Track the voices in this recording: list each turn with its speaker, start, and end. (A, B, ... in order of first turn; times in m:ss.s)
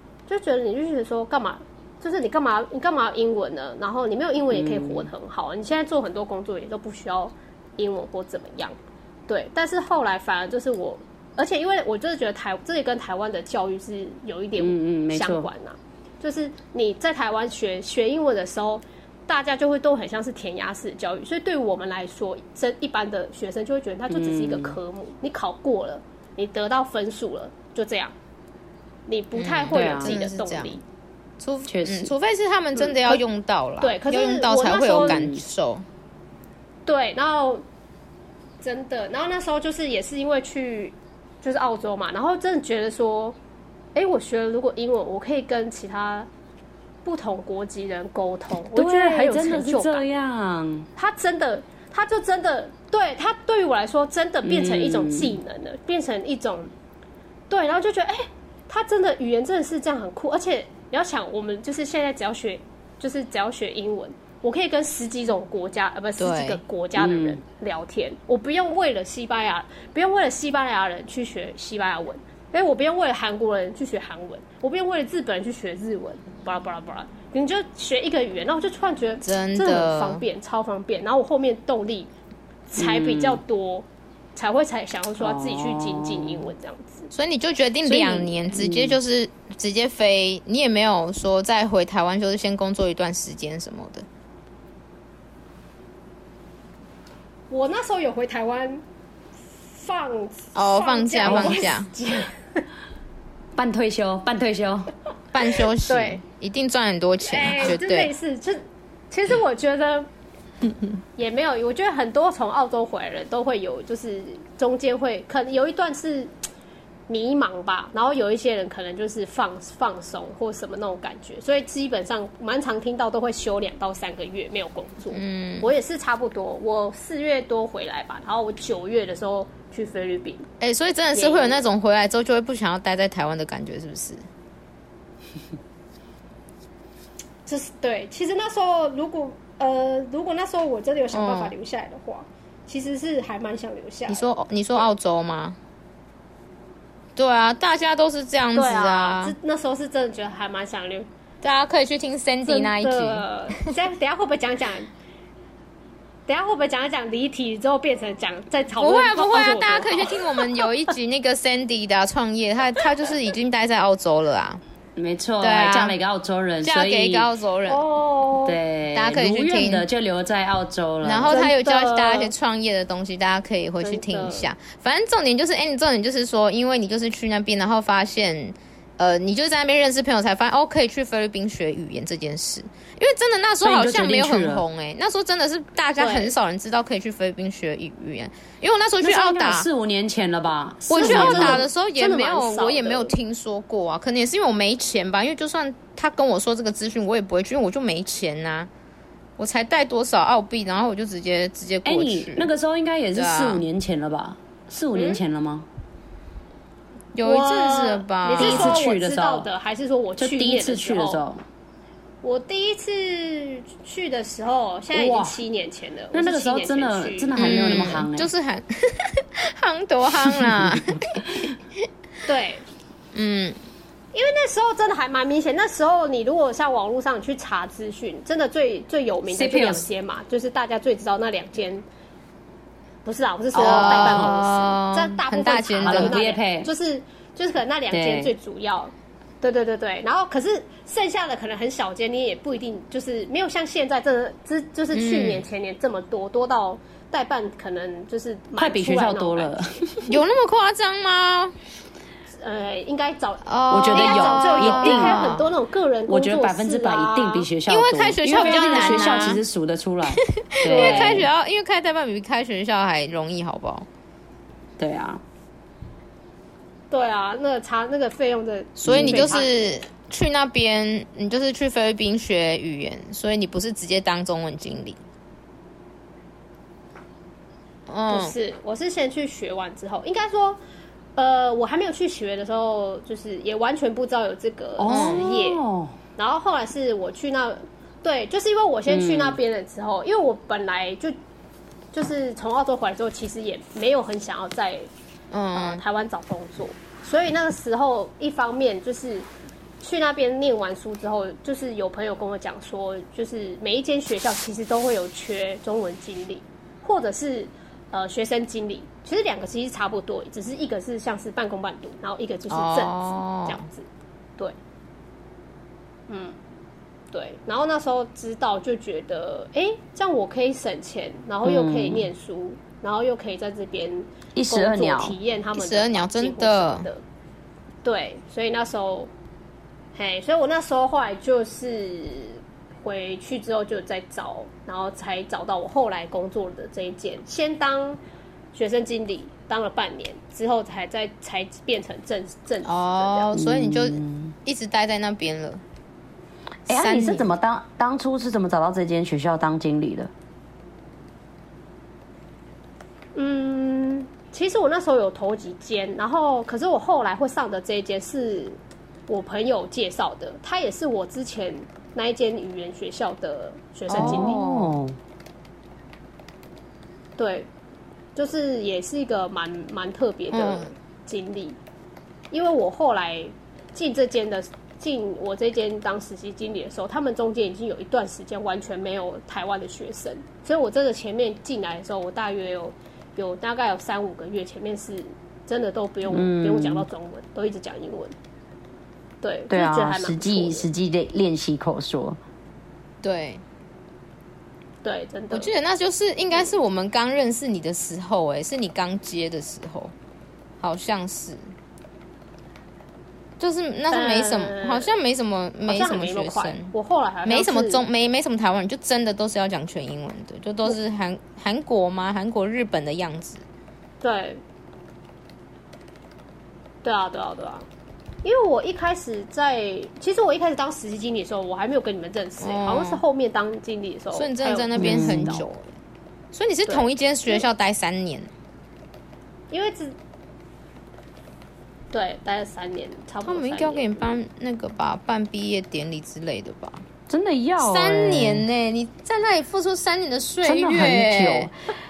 0:00.3-0:08.8 A
0:04.5-0:05.1 B
0:09.3-0:28.1 A
0:14.6-0:15.5 B
0:24.1-0:24.8 B
0:29.1-0:30.8 A
0:29.4-0:30.8 C
0:29.7-0:30.1 B
0:31.4-0:35.8 C
0:31.7-0:32.1 B
0:32.8-0:33.2 A
0:33.8-0:35.3 A
0:35.0-0:35.4 B
0:36.8-0:37.6 A
0:38.6-0:43.4 A
0:43.9-0:46.3 A
0:47.0-0:50.0 A
0:48.7-0:50.9 B
0:51.0-0:56.7 A
0:54.4-0:55.4 B
0:57.5-1:22.1 A
1:06.2-1:06.6 C
1:07.0-1:07.4 B
1:19.2-1:20.2 C
1:22.7-1:27.1 A
1:22.8-1:23.4 B
1:25.2-1:26.5 B
1:27.1-1:34.0 C
1:27.8-1:28.4 A
1:28.5-1:29.0 B
1:37.5-1:38.8 A
1:39.6-1:42.6 A
1:40.5-1:41.9 C
1:41.2-1:41.7 B
1:43.6-1:44.9 B
1:45.3-1:48.1 C
1:45.8-1:46.2 A
1:47.2-1:50.1 A
1:51.2-1:56.3 A
1:57.1-2:10.4 A
2:05.1-2:05.7 C
2:10.6-2:14.2 C
2:11.1-2:11.6 A
2:17.4-2:24.9 A
2:21.1-2:21.5 C
2:24.1-2:25.6 C
2:27.2-2:29.3 C
2:28.5-2:31.1 A
2:31.4-2:33.7 C
2:32.4-2:34.9 A
2:36.3-2:40.4 A
2:38.8-2:44.6 C
2:45.0-2:47.3 B
2:45.4-2:45.9 C
2:46.6-2:47.8 C
2:47.7-2:48.6 A
2:48.4-2:51.4 B
2:48.9-2:49.8 C
2:51.0-3:09.7 C
2:51.3-2:52.3 A
2:53.8-2:54.5 A
3:03.6-3:04.6 B
3:06.0-3:06.3 A
3:09.0-3:11.6 B
3:10.9-3:13.1 A
3:10.9-3:18.7 C
3:19.4-3:22.5 C
3:21.8-3:25.6 B
3:23.2-3:23.6 C
3:24.9-3:25.2 A
3:27.1-3:28.8 C
3:27.2-3:31.2 A
3:28.4-3:29.5 B
3:30.2-3:31.4 B
3:32.2-3:38.0 A
3:34.9-3:35.4 B
3:36.1-3:38.3 B
3:37.4-3:41.4 C
3:40.3-3:41.3 B
3:42.2-3:42.6 A
3:43.1-3:43.6 C
3:44.1-3:51.8 A
3:49.3-3:49.9 B
3:53.0-4:10.0 A
3:53.5-3:56.2 C
3:53.6-3:54.3 B
3:55.8-3:56.7 B
3:57.9-3:58.3 B
4:04.9-4:05.4 C
4:08.6-4:10.1 B
4:10.0-4:11.5 C
4:12.4-4:17.5 A
4:13.4-4:15.5 C
4:13.7-4:15.2 B
4:16.1-4:21.3 B
4:17.7-4:19.4 C
4:18.3-4:19.4 A
4:20.1-4:23.8 C
4:20.6-4:21.3 A
4:24.8-4:25.2 B
4:26.9-4:29.5 A
4:28.8-4:35.0 C
4:28.8-4:29.4 B
4:37.9-4:38.3 C
4:38.1-4:40.6 A
4:41.2-4:45.6 A
4:44.8-4:46.0 B
4:44.9-4:45.2 C
4:46.2-4:51.2 A
4:48.9-4:49.4 B
4:51.9-4:54.9 A
4:55.3-4:55.8 C
4:55.5-4:59.3 A
4:59.8-5:14.6 A
5:12.5-5:13.6 C
5:16.1-5:16.4 A
5:17.1-5:27.0 A
5:21.4-5:22.1 B
5:24.3-5:25.2 B
5:25.5-5:26.9 C
5:27.8-5:29.1 A
5:29.9-5:38.0 A
5:38.5-5:43.3 A
5:42.6-5:45.6 C
5:43.3-5:44.3 B
5:46.7-5:50.1 B
5:46.7-5:47.3 C
5:53.1-6:04.4 A
6:03.9-6:04.8 C
6:03.9-6:05.0 B
6:07.2-6:07.5 A
6:08.1-6:11.6 A
6:10.3-6:10.7 C
6:12.3-6:28.1 A
6:26.1-6:26.9 B
6:29.2-6:30.7 A
6:29.5-6:32.2 B
6:33.0-6:33.4 C
6:34.8-6:35.5 A
6:35.3-6:39.9 C
6:40.6-6:41.5 C
6:43.4-6:46.7 C
6:43.9-6:44.9 A
6:45.7-6:47.8 A
6:47.2-6:53.4 C
6:54.0-6:54.4 A
6:56.8-6:57.7 A
6:58.2-7:05.5 A
7:02.4-7:03.0 C
7:04.1-7:05.7 C
7:04.8-7:05.4 B
7:06.3-7:08.3 C
7:06.6-7:07.4 A
7:09.5-7:10.0 A
7:11.9-7:14.1 A
7:13.2-7:16.8 C
7:17.1-7:18.4 B
7:17.6-7:21.5 C
7:20.4-7:21.5 B